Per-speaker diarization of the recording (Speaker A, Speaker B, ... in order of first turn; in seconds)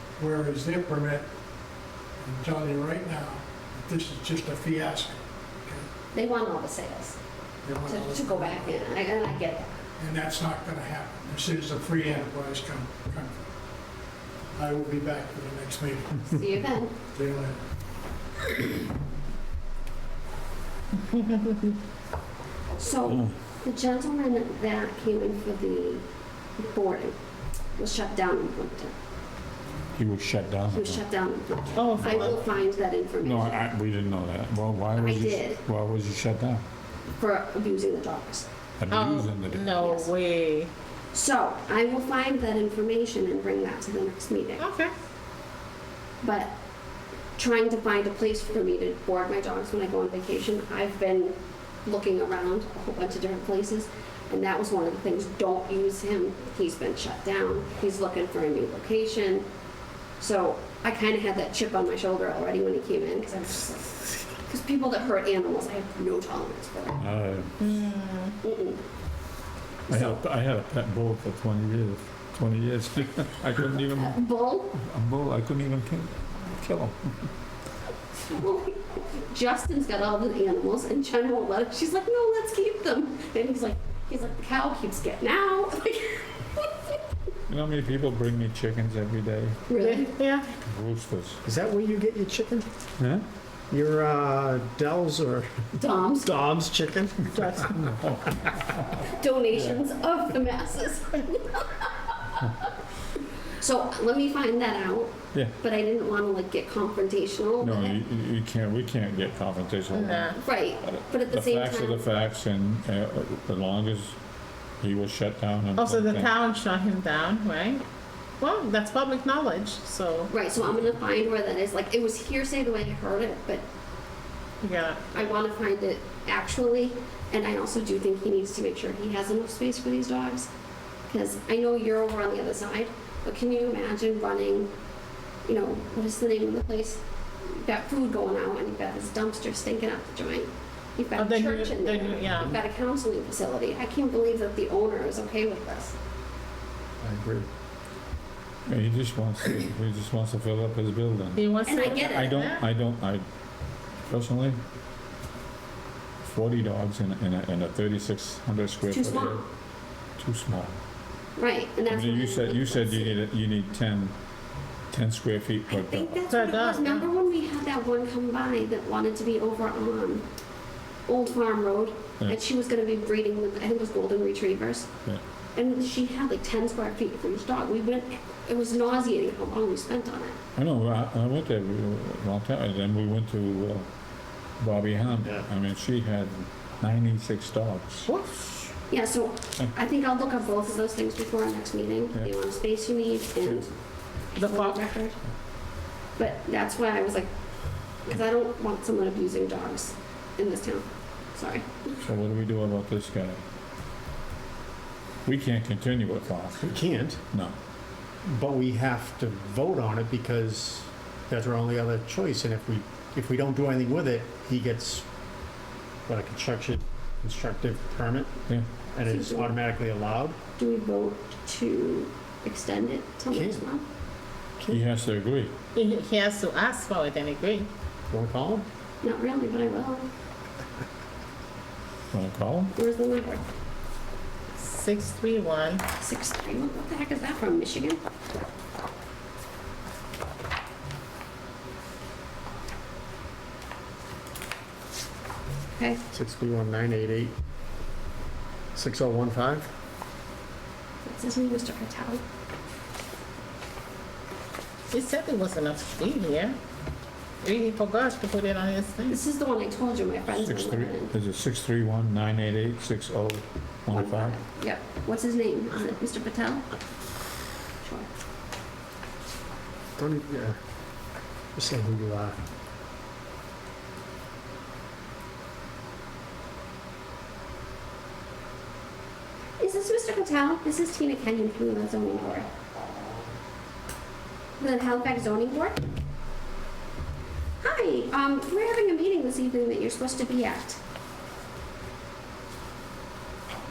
Speaker A: 0.2-1.3, 2.2-5.9, 7.6-8.6, 10.0-13.4, 14.6-16.2, 17.1-17.6
Speaker B: 6.1-7.2, 7.9-9.8, 16.2-17.0, 22.8-26.0, 26.6-27.2, 27.8-28.9, 30.7-33.6, 35.0-35.6, 37.2-38.5, 39.7-40.1, 41.1-44.7, 46.2-46.5, 47.4-59.5, 60.2-67.0, 68.4-68.8, 69.9-70.2, 74.0-74.7, 78.3-86.7, 89.7-90.2, 95.8-96.3, 99.0-102.7, 103.6-108.0, 110.4-112.1, 120.3-123.7, 125.1-130.5, 131.1-134.7, 135.5-146.0, 151.7-152.3, 158.9-159.4, 161.4-163.2, 165.7-170.2, 171.1-174.9, 175.6-180.4, 188.9-193.7, 194.3-195.2, 196.2-197.3, 198.1-202.0, 219.1-219.6, 220.6-223.8, 229.0-230.1, 232.7-233.4, 236.0-238.0, 245.8-246.0, 251.0-252.2, 259.1-261.1, 263.9-266.6, 267.8-268.1, 279.6-282.5, 284.6-285.9, 287.6-290.8
Speaker C: 30.0-31.0, 33.2-36.6, 38.8-39.7, 67.0-67.5, 69.9-74.2, 74.7-77.1, 87.5-89.6, 90.7-91.4, 93.0-93.2, 97.8-99.8, 107.6-114.2, 114.8-116.3, 148.7-153.3, 154.1-154.6, 156.2-159.4, 160.2-160.8, 161.9-164.1, 164.9-166.2, 180.6-183.9, 184.6-188.1, 202.1-203.4, 205.2-207.6, 224.7-225.5, 232.1-232.7, 260.3-264.4
Speaker D: 31.8-32.4, 38.9-40.7, 44.6-44.9, 67.6-68.4, 89.8-90.5, 97.3-97.8, 109.9-110.4, 115.8-117.8, 118.4-120.3, 124.6-125.1, 141.2-142.6, 151.3-152.7, 166.3-167.1, 188.1-188.7, 194.4-194.8, 225.8-227.7, 234.6-235.8, 254.9-256.6, 257.4-259.2
Speaker E: 91.5-92.7, 93.7-95.7, 96.2-97.7, 147.0-147.5, 206.7-207.2, 208.2-215.1, 216.1-218.3, 218.9-220.4, 223.3-223.6, 228.1-228.7, 246.1-247.3, 248.8-249.7, 270.0-270.6, 271.6-272.4